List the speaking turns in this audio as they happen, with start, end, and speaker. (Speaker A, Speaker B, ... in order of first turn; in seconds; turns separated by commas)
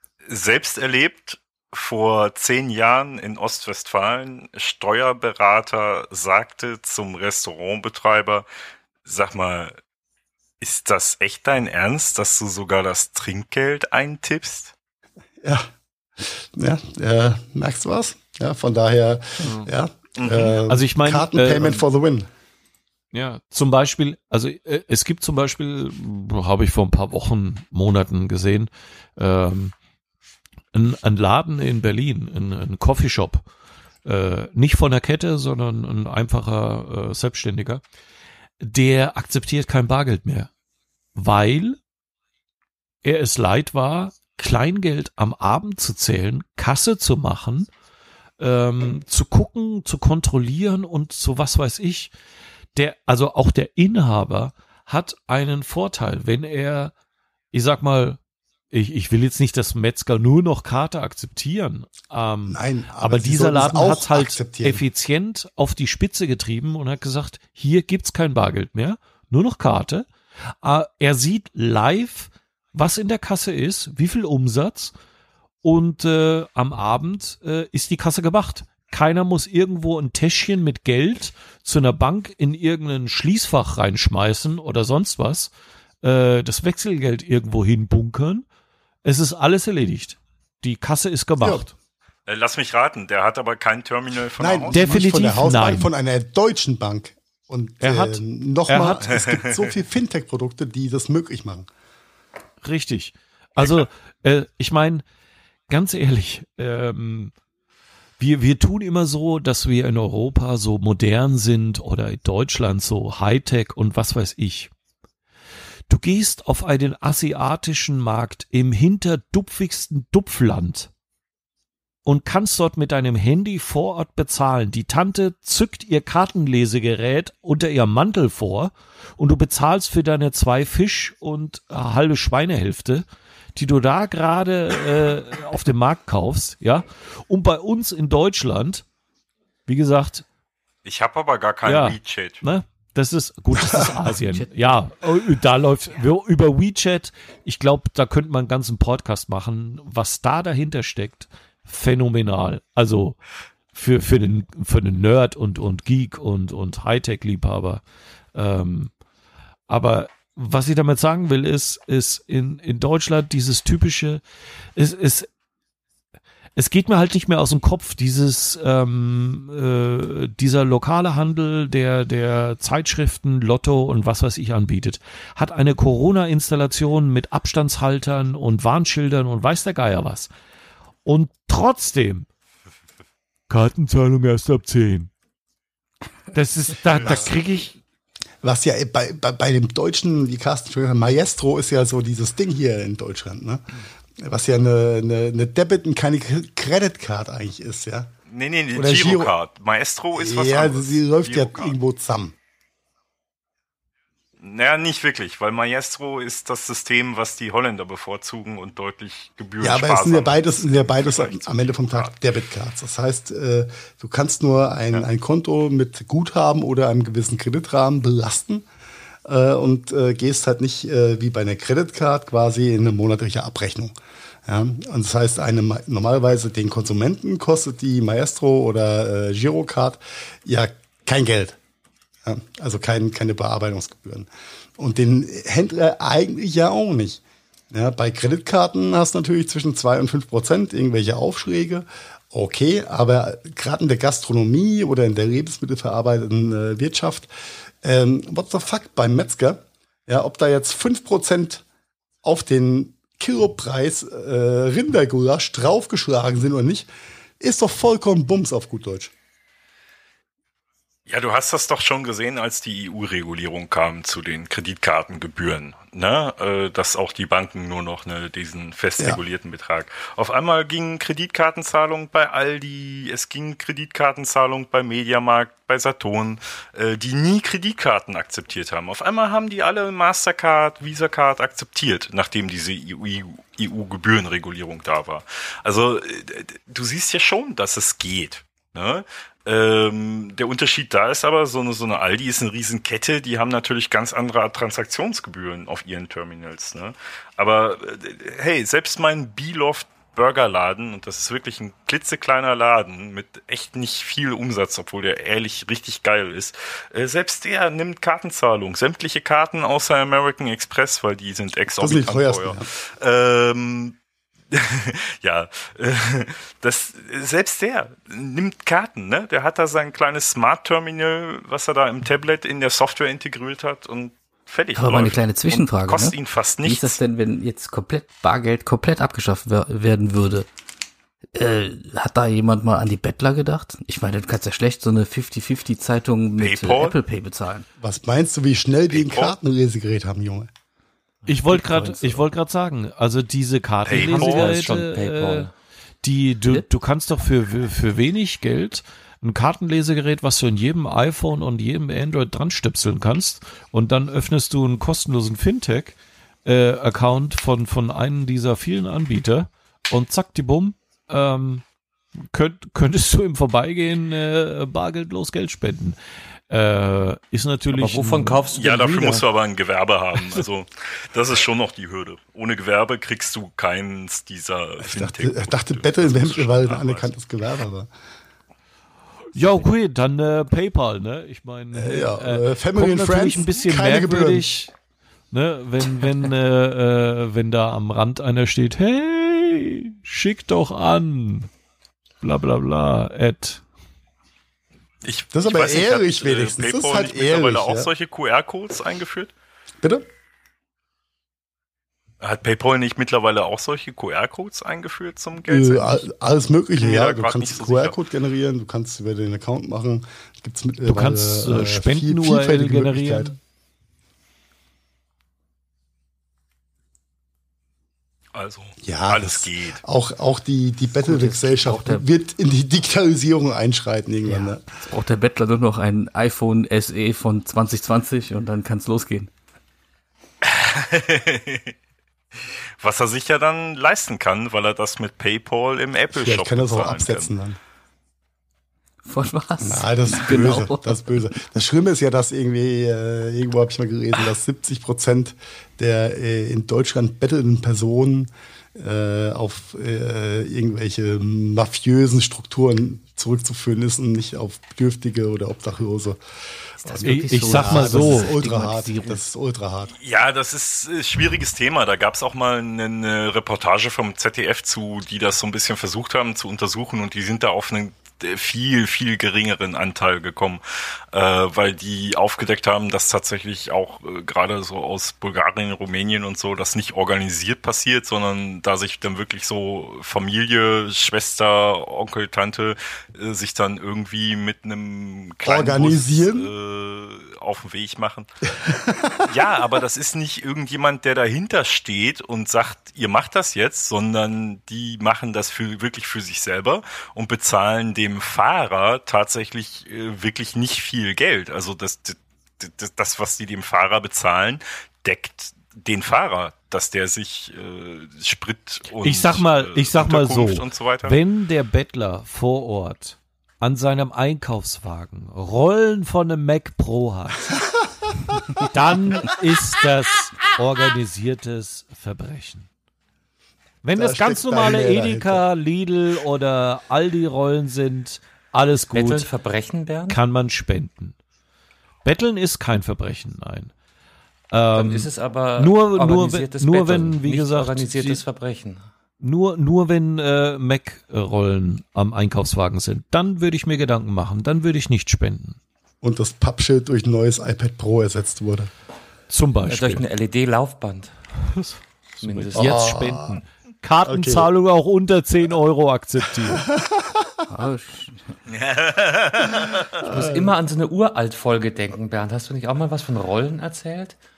Speaker A: 0.3-8.5, Speaker A: 9.0-9.7, Speaker A: 10.6-14.7, Speaker B: 15.4-15.7, Speaker B: 16.2-22.3, Speaker A: 20.2-20.6, Speaker C: 20.7-21.8, Speaker C: 23.1-29.7, Speaker C: 30.7-33.5, Speaker C: 34.0-37.8, Speaker C: 38.6-40.5, Speaker C: 41.1-41.8, Speaker C: 43.0-47.7, Speaker C: 48.4-52.1, Speaker C: 52.8-56.9, Speaker C: 57.5-58.2, Speaker C: 58.7-70.1, Speaker B: 62.5-64.8, Speaker C: 70.6-74.9, Speaker C: 75.6-85.5, Speaker C: 86.0-88.4, Speaker C: 89.0-91.7, Speaker A: 92.3-94.8, Speaker B: 94.4-101.7, Speaker C: 94.7-95.9, Speaker C: 97.8-99.1, Speaker A: 99.1-99.7, Speaker C: 102.6-105.0, Speaker C: 105.7-107.3, Speaker C: 108.2-114.7, Speaker C: 115.9-120.9, Speaker C: 122.0-138.8, Speaker C: 139.7-140.2, Speaker A: 140.8-142.4, Speaker C: 141.6-153.2, Speaker D: 144.1-144.4, Speaker C: 153.7-157.8, Speaker C: 158.3-158.9, Speaker C: 159.7-164.2, Speaker C: 164.8-165.3, Speaker C: 166.6-180.3, Speaker C: 181.0-182.3, Speaker C: 183.5-185.1, Speaker C: 186.3-187.8, Speaker B: 187.0-187.3, Speaker B: 188.4-193.6, Speaker B: 194.2-198.1, Speaker A: 198.3-201.8, Speaker B: 198.7-199.3, Speaker B: 200.2-202.3, Speaker A: 204.4-212.2, Speaker B: 209.6-218.7, Speaker B: 219.2-223.9, Speaker B: 224.4-231.6, Speaker B: 232.2-247.3, Speaker B: 247.8-251.6, Speaker B: 252.2-256.9, Speaker B: 257.4-259.1, Speaker A: 261.1-314.0, Speaker B: 311.8-312.6, Speaker A: 314.5-327.0, Speaker D: 324.8-330.5, Speaker D: 331.3-337.6, Speaker A: 336.4-336.9, Speaker B: 337.8-340.5, Speaker A: 338.9-339.3, Speaker C: 341.2-345.5, Speaker D: 341.5-342.2, Speaker A: 343.9-344.6, Speaker E: 343.9-345.5, Speaker C: 346.0-361.6, Speaker C: 362.3-366.0, Speaker C: 366.5-368.4, Speaker E: 367.7-369.2, Speaker A: 368.6-377.1, Speaker B: 374.8-377.9, Speaker C: 379.3-384.7, Speaker B: 381.7-384.5, Speaker C: 385.3-391.5, Speaker C: 392.2-393.6, Speaker A: 395.0-399.3, Speaker B: 395.3-397.9, Speaker A: 402.2-406.1, Speaker B: 405.4-413.3, Speaker A: 406.8-407.9, Speaker C: 410.8-413.4, Speaker A: 418.3-419.8, Speaker B: 418.8-424.6, Speaker D: 421.0-422.0, Speaker D: 424.3-429.3, Speaker A: 430.4-431.7, Speaker A: 432.8-437.3, Speaker B: 436.1-437.6, Speaker D: 439.0-441.1, Speaker B: 439.6-456.2, Speaker B: 456.8-459.9, Speaker D: 456.8-459.2, Speaker C: 457.0-458.4, Speaker A: 459.9-488.3, Speaker B: 485.4-486.5, Speaker B: 488.6-489.1, Speaker A: 489.2-511.2, Speaker C: 509.0-517.5, Speaker C: 518.5-522.7, Speaker C: 523.8-529.3, Speaker B: 524.0-525.4, Speaker E: 528.9-530.2, Speaker C: 530.1-531.2, Speaker C: 532.0-533.7, Speaker C: 534.5-538.2, Speaker E: 534.7-538.8, Speaker C: 539.2-545.6, Speaker B: 546.0-548.7, Speaker C: 549.3-550.0, Speaker E: 549.7-551.1, Speaker C: 551.4-556.7, Speaker E: 552.2-552.9, Speaker B: 552.5-553.4, Speaker B: 554.0-554.5, Speaker B: 556.5-557.4, Speaker D: 557.5-558.2, Speaker A: 558.5-560.0, Speaker B: 560.0-560.5, Speaker E: 560.0-564.1